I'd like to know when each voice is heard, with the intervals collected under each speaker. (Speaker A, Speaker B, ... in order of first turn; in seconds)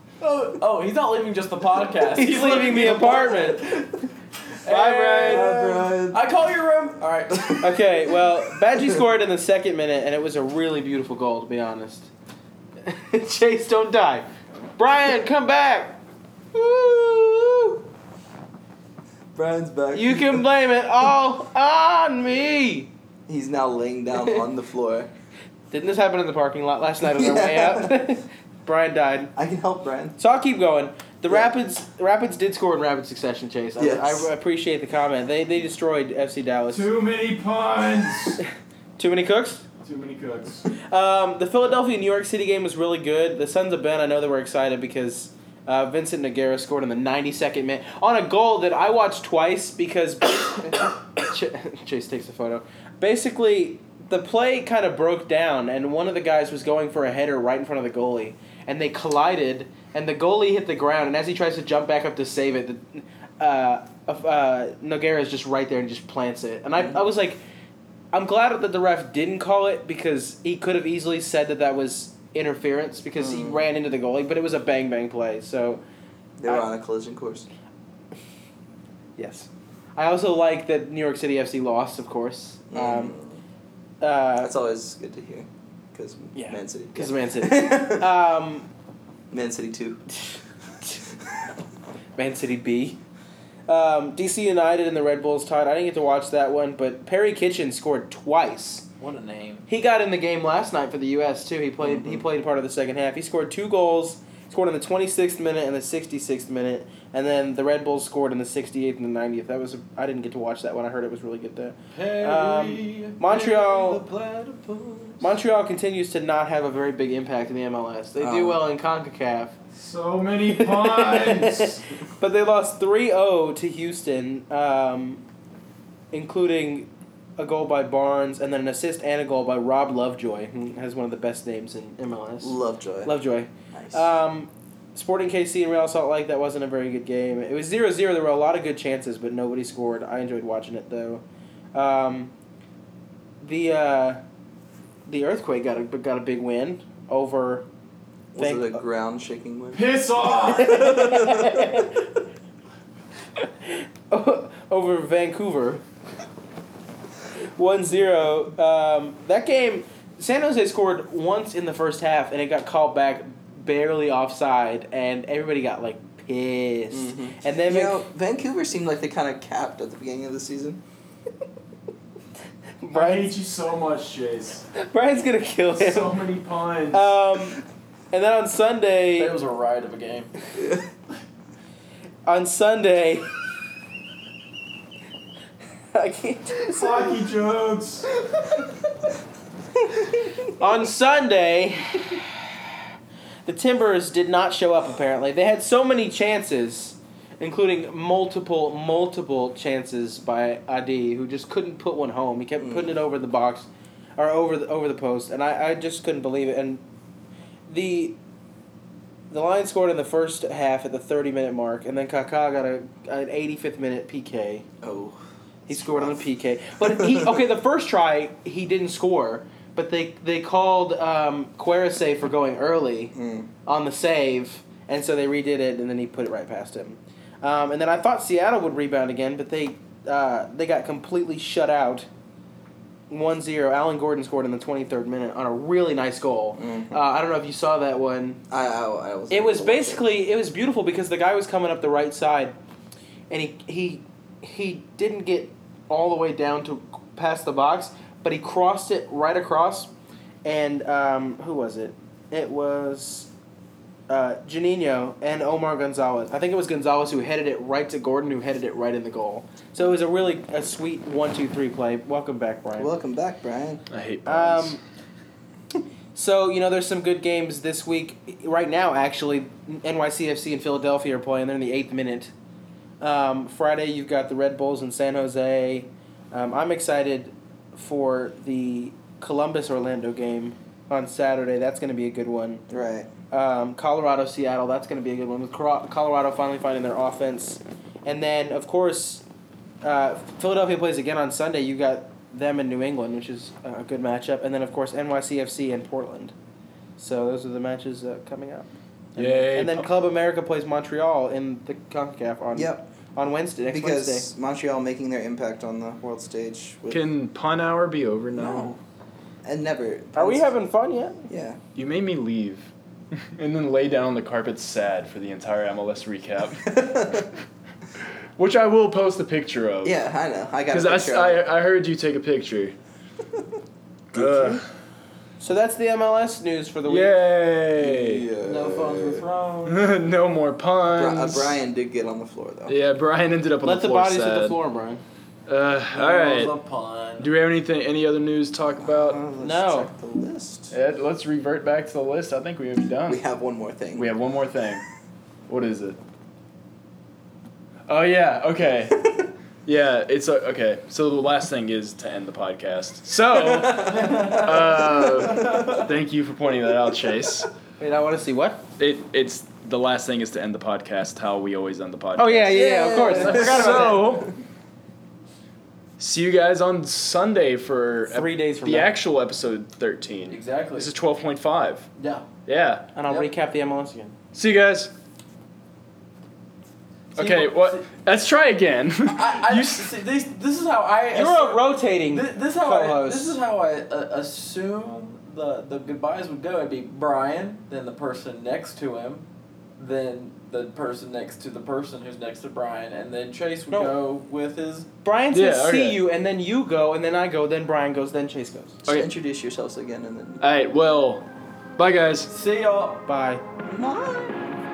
Speaker A: 0.2-7.7, 99.0-99.7, 111.9-115.2, 179.2-180.3, 328.4-329.9, 335.9-337.3, 354.0-354.5, 363.0-363.3, 370.3-370.9, 372.0-372.3, 377.1-377.9, 379.1-389.2, 389.8-394.9, 402.3-403.0
Speaker B: 2.1-3.7, 4.7-5.8, 7.6-12.1, 12.8-16.0, 19.9-22.9, 25.7-29.3, 30.2-36.9, 39.0-39.6, 40.8-67.4, 68.1-75.8, 79.2-83.2, 84.0-84.5, 86.3-88.7, 92.2-93.0, 93.7-98.8, 99.7-114.0, 115.2-119.6, 120.5-125.2, 126.1-141.2, 141.7-142.3, 143.4-144.2, 145.1-147.7, 148.4-148.8, 150.4-152.0, 153.4-155.8, 157.6-168.1, 172.8-173.3, 174.7-176.2, 176.9-179.4, 182.3-183.3, 185.9-187.2, 190.6-192.4, 193.5-206.8, 207.7-208.2, 209.3-214.7, 215.7-223.1, 223.7-232.1, 233.1-238.4, 239.3-242.6, 243.3-249.9, 250.4-253.3, 254.1-262.9, 264.3-264.8, 266.1-272.3, 273.0-282.6, 283.3-289.2, 289.8-296.4, 297.0-304.3, 310.2-311.3, 325.4-327.1, 333.6-335.0, 339.4-339.9, 357.8-358.6, 362.2-364.2, 368.1-368.9, 372.9-374.1, 381.1-383.4, 393.7-394.0, 395.0-398.8, 403.1-403.4
Speaker C: 5.2-6.2, 7.3-7.7, 16.5-17.6, 19.3-20.4, 23.3-25.1, 27.1-28.1, 29.4-30.2, 33.8-34.3, 66.8-67.0, 73.2-73.6, 76.4-77.5, 82.7-83.4, 84.4-88.1, 89.3-90.0, 101.8-102.2, 118.2-118.6, 132.4-133.2, 133.7-134.1, 148.3-149.8, 166.9-170.8, 202.6-202.9, 214.8-216.2, 216.8-217.2, 223.2-223.5, 236.6-237.0, 238.5-240.1, 262.8-263.9, 282.7-283.1, 302.5-302.9, 303.7-307.0, 308.4-308.8, 309.4-310.5, 311.3-311.6, 316.6-317.3, 319.8-321.4, 324.1-324.6, 327.8-329.3, 330.9-332.8, 338.8-340.7, 343.1-344.1, 353.3-355.8, 362.5-364.3, 398.9-400.5, 403.6-404.4
Speaker D: 36.7-38.4, 39.8-40.7, 119.7-121.8, 149.7-151.5, 172.9-174.7, 175.7-177.2, 186.7-188.1, 263.9-264.8, 299.2-299.9, 306.9-308.7, 311.8-317.3, 318.4-319.9, 320.7-322.8, 324.1-324.7, 326.9-328.3, 329.7-331.6, 332.7-334.6, 335.5-336.5, 337.2-339.2, 340.7-343.2, 343.9-344.8, 345.5-346.0, 347.9-349.1, 349.7-357.5, 358.8-364.3, 366.0-371.9, 372.5-372.9, 374.3-374.9, 377.2-380.0, 395.3-396.0, 398.9-399.1, 400.4-401.3, 401.8-402.3